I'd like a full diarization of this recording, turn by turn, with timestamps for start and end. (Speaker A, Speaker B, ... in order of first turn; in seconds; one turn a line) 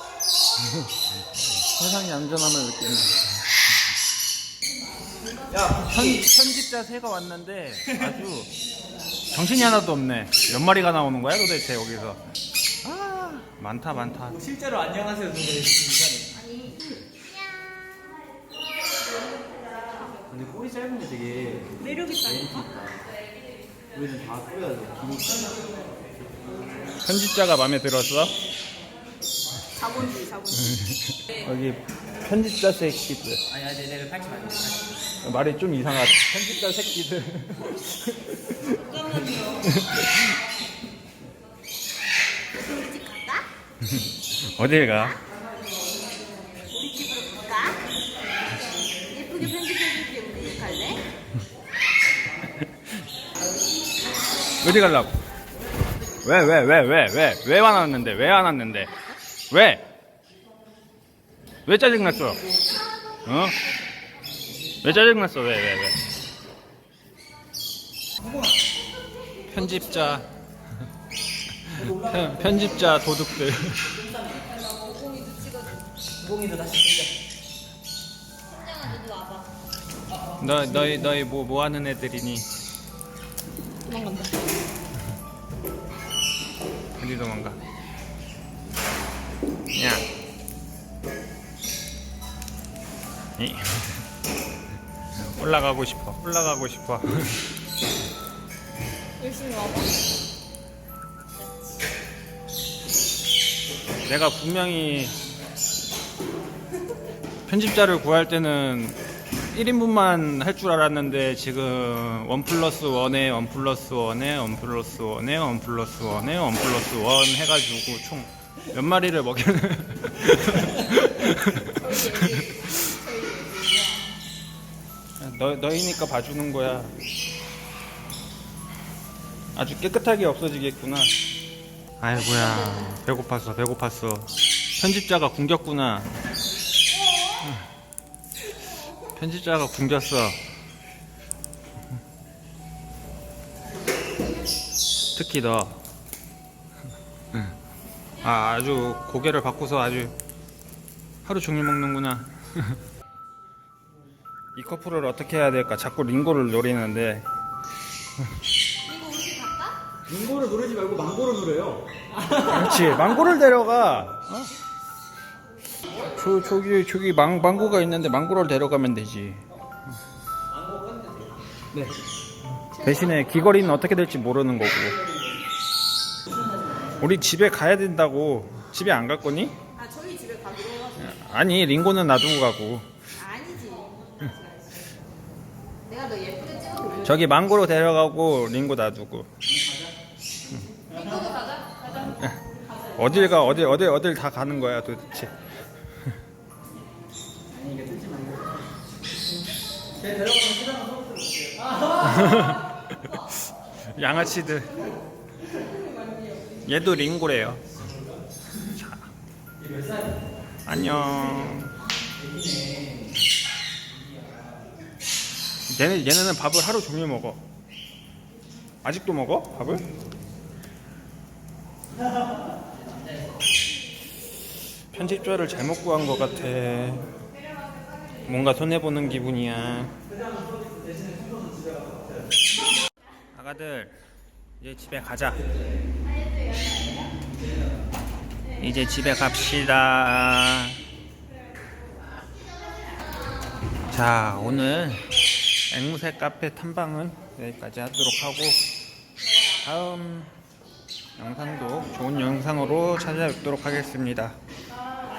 Speaker A: 1.5-3.3
Speaker A: 5.5-8.5
Speaker A: 9.3-12.2
Speaker A: 12.8-14.5
Speaker B: 15.4-16.1
Speaker C: 16.5-16.7
Speaker B: 20.5-21.5
Speaker C: 21.6-22.9
Speaker B: 24.2-25.5
Speaker A: 27.0-28.4
Speaker C: 29.8-30.8
Speaker A: 30.6-33.5
Speaker A: 35.2-40.4
Speaker C: 42.6-43.5
Speaker A: 43.8-45.2
Speaker C: 46.6-47.9
Speaker C: 48.9-51.0
Speaker A: 54.6-55.2
Speaker A: 56.2-58.9
Speaker A: 59.5-59.9
Speaker A: 61.7-62.5
Speaker A: 63.2-63.6
Speaker A: 64.8-66.0
Speaker A: 69.5-70.3
Speaker A: 71.6-74.0
Speaker C: 74.5-75.8
Speaker B: 76.4-76.9
Speaker C: 78.6-79.5
Speaker A: 80.4-82.5
Speaker C: 83.9-84.4
Speaker A: 87.0-87.6
Speaker A: 89.7-90.1
Speaker A: 93.4-94.0
Speaker A: 95.2-97.4
Speaker C: 99.2-99.9
Speaker A: 104.1-105.2
Speaker A: 107.5-109.0
Speaker A: 109.5-122.9
Speaker C: 121.9-124.1
Speaker A: 125.2-127.0
Speaker A: 129.6-131.2
Speaker A: 132.0-136.1
Speaker A: 139.0-140.4
Speaker A: 145.2-145.8
Speaker A: 148.2-150.2
Speaker A: 151.2-152.8
Speaker A: 154.5-157.3
Speaker C: 158.8-159.8
Speaker B: 160.4-161.8
Speaker A: 162.4-164.5
Speaker A: 166.0-169.4
Speaker A: 172.7-175.0
Speaker A: 177.0-179.6
Speaker C: 179.8-181.1
Speaker A: 181.0-182.9
Speaker C: 183.2-184.9
Speaker C: 185.8-187.2
Speaker A: 187.0-189.3
Speaker C: 190.9-191.8
Speaker A: 192.0-195.3
Speaker B: 200.5-200.9
Speaker A: 201.9-203.3
Speaker A: 203.9-204.9
Speaker C: 205.7-206.4
Speaker A: 206.5-207.8
Speaker A: 208.6-209.1
Speaker A: 210.7-211.7
Speaker A: 215.7-217.4
Speaker A: 218.8-219.9
Speaker A: 224.9-227.1
Speaker A: 228.2-230.0
Speaker A: 233.3-234.0
Speaker A: 234.6-235.4
Speaker A: 238.6-240.8
Speaker A: 243.9-245.1
Speaker A: 245.7-248.6
Speaker A: 249.6-250.3
Speaker A: 251.2-254.4